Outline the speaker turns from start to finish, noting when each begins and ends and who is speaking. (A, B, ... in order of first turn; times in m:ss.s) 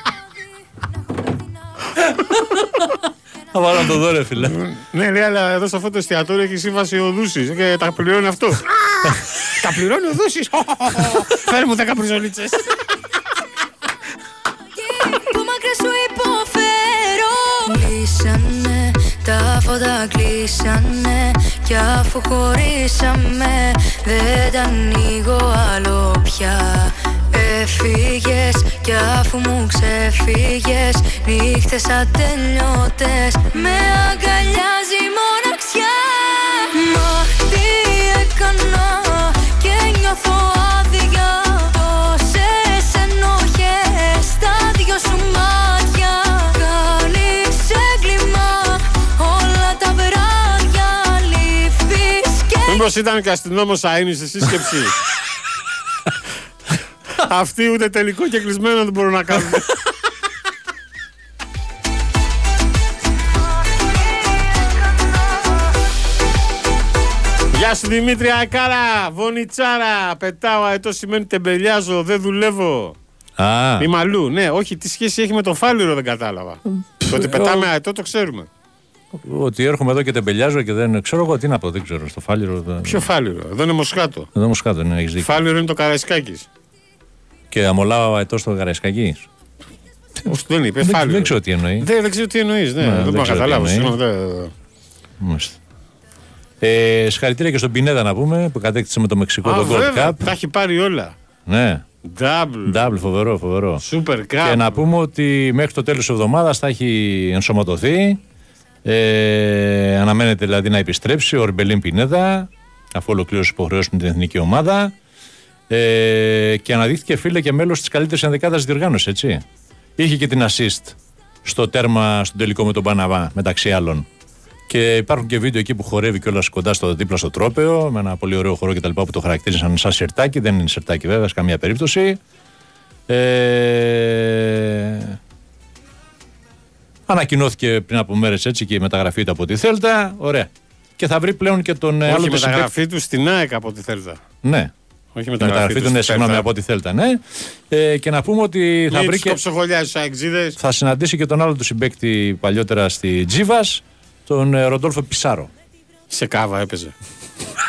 0:02.1-0:02.8 A
0:03.5-0:04.6 A
0:04.4-0:08.7 B
0:09.4-0:12.6 B
0:14.8-0:52.8 C
0:52.6-0:54.9 B
0:57.1-0:59.6 B
1:07.5-1:13.0 B
1:13.4-1:13.9 A
1:13.8-1:18.5 B
1:16.6-1:17.7 A
1:19.1-1:23.1 A
1:22.8-1:24.3 B
1:24.3-1:25.4 A
1:25.2-1:26.5 B
1:27.5-1:29.3 A
1:30.3-1:34.5 B
1:30.8-1:31.9 A
1:32.8-1:33.9 A
1:35.2-1:35.6 A
1:36.6-1:40.2 A
1:39.4-1:41.2 B
1:41.4-1:41.8 A
1:42.0-1:42.9 B
1:42.6-1:43.8 A
1:43.8-1:44.8 B
1:44.4-1:48.2 A
1:48.8-1:54.9 A
1:55.7-1:59.4 A
2:00.0-2:04.0 A
2:04.7-2:12.2 A
2:13.1-2:15.2 A
2:17.1-2:22.7 A
2:22.0-2:24.2 B
2:24.4-2:24.7 A
2:25.1-2:26.5 B
2:25.4-2:29.4 A
2:28.9-2:30.6 B
2:30.6-2:35.5 A
2:36.1-2:36.9 B